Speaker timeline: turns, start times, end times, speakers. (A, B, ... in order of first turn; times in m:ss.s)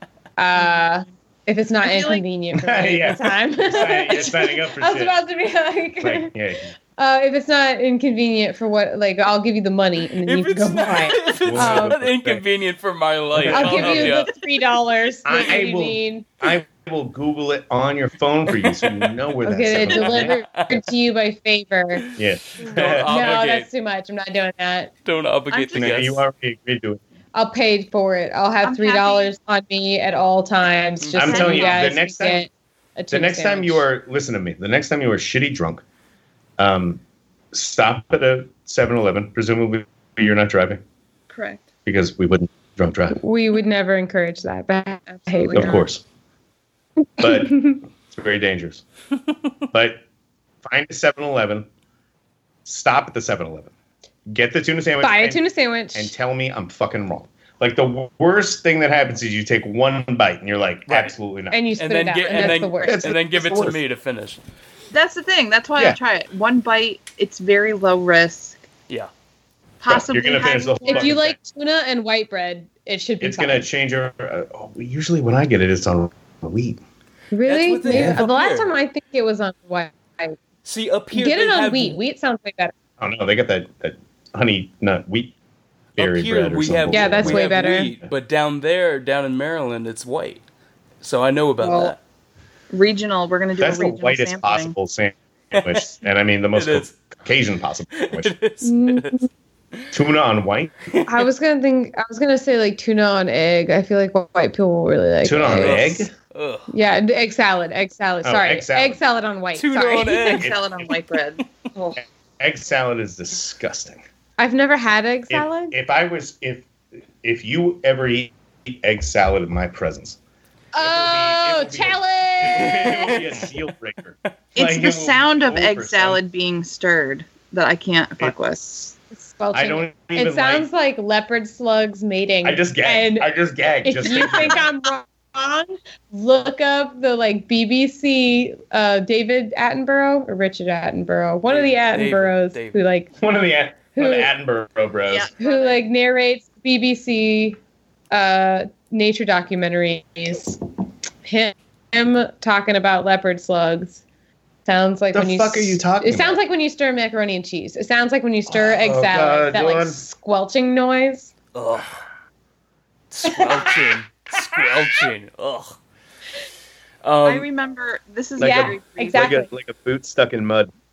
0:00.4-0:06.3 A
0:01.8-0:02.2 B
0:02.5-0:05.2 C
0:06.0-0:06.7 C
0:07.0-0:12.0 A
0:10.2-0:14.3 D
0:11.4-0:12.4 C
0:13.3-0:14.2 C
0:13.5-0:16.3 A
0:15.2-0:20.4 C
0:18.5-0:19.1 D
0:19.4-0:22.0 A
0:20.0-0:20.8 D
0:22.0-0:23.7 D
0:22.2-0:23.2 C
0:23.0-0:24.9 A
0:25.0-0:26.2 D
0:25.5-0:26.0 B
0:25.7-0:27.0 C
0:27.3-0:33.8 A
0:28.6-0:29.3 B
0:31.1-0:32.4 C
0:31.2-0:31.9 B
0:33.1-0:35.8 C
0:36.6-0:37.0 C
0:37.5-0:40.8 C
0:41.3-0:41.6 B
0:41.8-0:43.2 C
0:43.1-0:45.8 A
0:45.3-0:45.8 B
0:45.5-0:46.0 C
0:47.2-0:47.8 A
0:47.2-0:48.8 C
0:49.7-0:50.0 C
0:50.6-0:51.7 C
0:52.6-0:53.7 C
0:54.3-0:55.4 C
0:55.0-0:56.1 A
0:55.9-1:01.6 C
1:00.9-1:01.1 D
1:01.5-1:03.1 A
1:01.8-1:04.4 D
1:02.3-1:03.8 C
1:04.9-1:08.7 B
1:09.8-1:11.2 B
1:09.9-1:11.4 C
1:10.8-1:13.6 A
1:13.2-1:16.8 C
1:17.3-1:20.4 A
1:17.4-1:18.7 D
1:17.9-1:18.2 C
1:20.6-1:22.0 D
1:21.1-1:22.7 A
1:23.0-1:25.3 C
1:26.0-1:27.4 C
1:26.0-1:30.4 D
1:26.9-1:27.9 A
1:31.0-1:32.0 D
1:31.6-1:31.9 A
1:32.7-1:34.7 B
1:33.6-1:38.3 C
1:35.5-1:35.9 D
1:36.5-1:37.0 D
1:37.9-1:39.2 D
1:38.6-1:39.3 A
1:39.9-1:40.7 C
1:41.0-1:46.0 A
1:45.2-1:46.1 C
1:45.4-1:46.7 D
1:46.7-1:50.4 A
1:48.2-1:49.0 C
1:49.5-1:50.5 D
1:50.2-1:51.4 B
1:50.4-1:50.8 C
1:52.0-1:54.0 C
1:54.4-1:55.7 A
1:55.3-1:56.7 C
1:57.2-2:00.2 C
2:00.7-2:03.3 A
2:00.8-2:06.2 C
2:02.5-2:03.5 D
2:04.5-2:08.9 B
2:09.1-2:13.3 A
2:09.5-2:10.7 C
2:12.4-2:14.6 C
2:13.8-2:23.1 A
2:14.0-2:14.7 B
2:21.5-2:22.8 D
2:23.2-2:25.3 C
2:24.0-2:24.3 A
2:25.1-2:25.8 B
2:25.4-2:27.6 A
2:28.1-2:30.6 A
2:31.2-2:34.0 A
2:34.6-2:41.3 A
2:35.1-2:36.4 C
2:38.5-2:40.0 C
2:41.5-2:42.0 D
2:43.1-2:45.8 D
2:43.3-2:43.8 A
2:47.0-2:47.5 D
2:47.2-2:49.2 B
2:48.4-2:50.7 C
2:48.4-2:49.5 A